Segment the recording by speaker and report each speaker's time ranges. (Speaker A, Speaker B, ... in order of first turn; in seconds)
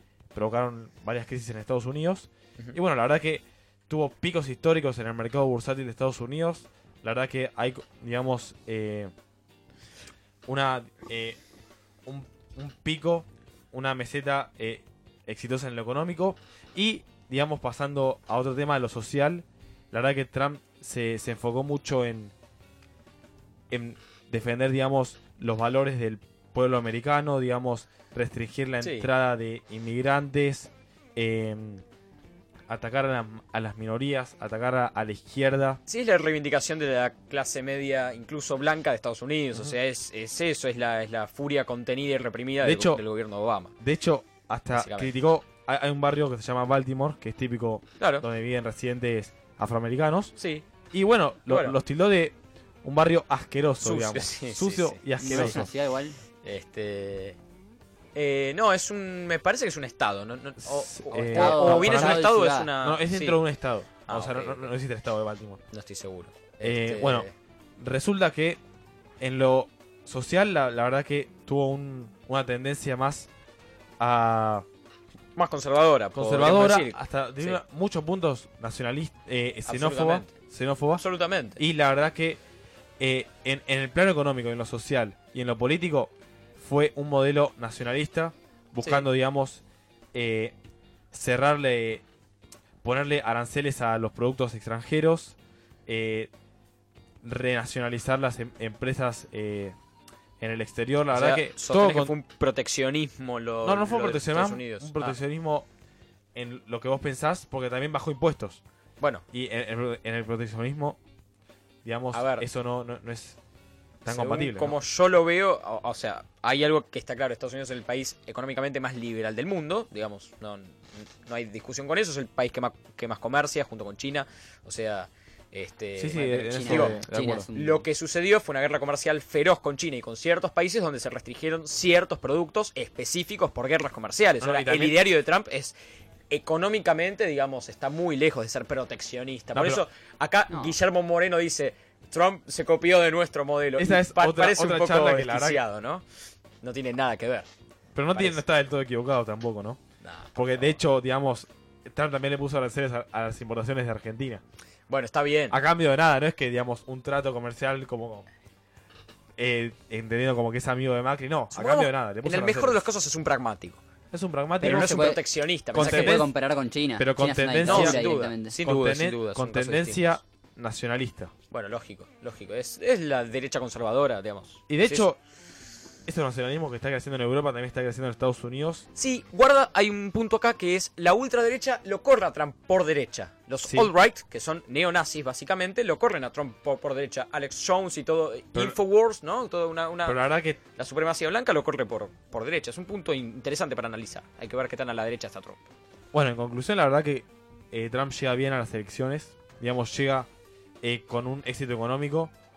Speaker A: 0.3-9.1, 10.4-11.4, 12.0-22.3, 23.7-31.8, 32.7-35.8, 42.6-43.0, 43.8-50.3, 50.9-55.7, 60.6-65.6, 66.6-67.3, 67.8-68.6, 69.2-73.3, 74.0-74.6, 76.1-81.0, 81.6-82.4, 83.0-89.6, 90.1-90.5, 91.1-92.0, 92.8-95.3, 95.9-96.3, 97.2-99.7, 100.4-102.1, 103.6-105.7, 106.3-108.6, 109.3-111.0, 111.8-113.4, 114.0-114.8, 126.0-127.5, 134.4-134.9, 139.5-139.8, 143.8-145.6, 147.9-149.8, 150.3-154.4, 155.5-158.3, 159.4-162.8, 164.1-165.1, 165.7-166.3, 167.0-168.0, 168.6-171.3, 174.7-175.2, 176.1-178.8, 183.6-183.9, 190.1-190.6, 196.1-200.3, 200.8-202.3
Speaker B: 28.8-29.1, 35.9-43.7, 44.8-45.1, 48.0-48.2, 50.4-50.6, 51.5-51.8, 53.8-55.6, 56.4-57.4, 58.1-63.4, 64.1-64.7, 65.7-67.3, 75.3-77.6, 79.7-80.3, 81.0-81.6, 101.1-105.2, 112.1-112.5, 114.1-127.0, 127.5-135.7, 136.3-146.0, 146.6-147.5, 148.1-148.4, 150.0-150.7, 154.9-155.6, 161.5-163.8, 164.6-166.3, 167.7-170.1, 171.5-175.1, 178.9-190.2, 190.8-195.6
Speaker C: 55.2-56.2, 61.3-62.7, 126.3-127.8, 164.6-165.2, 165.8-168.5